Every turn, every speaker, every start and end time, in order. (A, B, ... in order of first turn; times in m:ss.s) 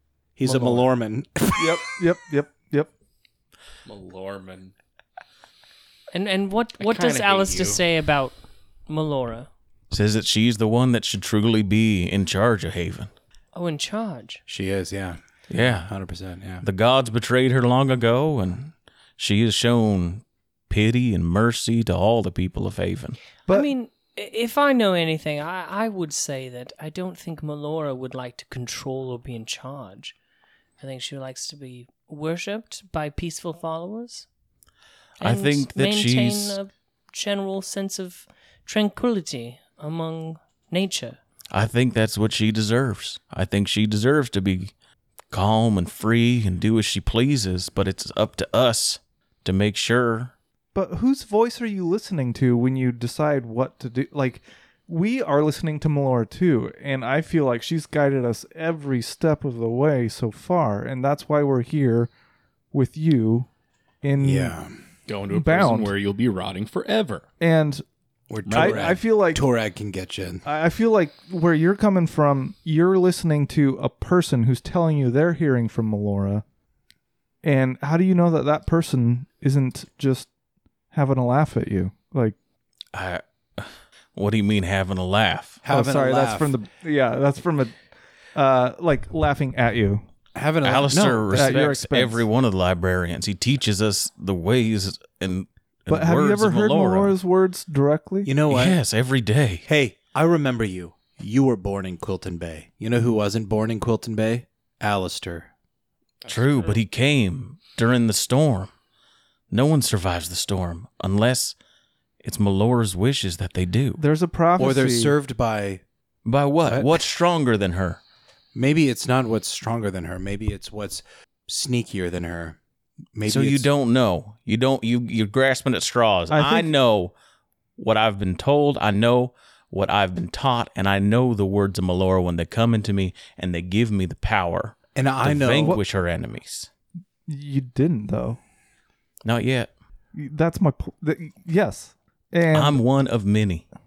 0:00.4-0:01.8 A
0:01.6-0:02.9 B
0:03.9-0:04.7 C
0:06.1-0:08.4 D
0:06.8-0:07.8 C
0:08.9-0:09.5 D
0:09.9-0:13.1 E
0:13.5-0:14.4 D
0:14.5-0:16.6 A
0:15.5-0:15.9 E
0:16.6-0:23.2 E
0:23.5-0:30.2 D
0:30.8-0:34.3 D
0:35.2-0:36.6 E
0:35.2-0:41.2 D
0:41.5-0:44.7 E
0:45.3-0:50.3 E
0:50.8-1:02.1 B
1:02.7-1:03.5 B
1:04.0-1:04.6 B
1:04.2-1:04.8 A
1:05.1-1:07.3 C
1:05.3-1:06.0 B
1:07.4-1:07.8 B
1:08.3-1:10.5 A
1:08.5-1:09.4 B
1:10.5-1:16.4 B
1:17.4-1:20.3 B
1:20.9-1:22.4 B
1:22.9-1:25.6 E
1:25.6-1:26.6 A
1:25.7-1:27.8 B
1:28.4-1:30.0 B
1:30.4-1:31.6 A
1:30.6-1:37.2 E
1:31.3-1:32.2 B
1:35.9-1:38.3 B
1:38.2-1:38.8 A
1:38.5-1:39.6 E
1:39.6-1:45.5 A
1:46.2-1:46.8 C
1:46.3-1:48.7 E
1:49.5-1:51.6 E
1:52.2-1:54.0 E
1:54.0-1:55.1 B
1:54.6-1:55.8 A
1:56.2-1:58.0 E
1:58.6-2:02.6 A
2:03.2-2:03.7 A
2:03.3-2:07.1 E
2:06.3-2:06.7 B
2:07.8-2:16.7 E
2:15.0-2:15.8 A
2:17.3-2:18.4 B
2:19.2-2:19.7 E
2:20.1-2:22.8 B
2:22.5-2:23.6 E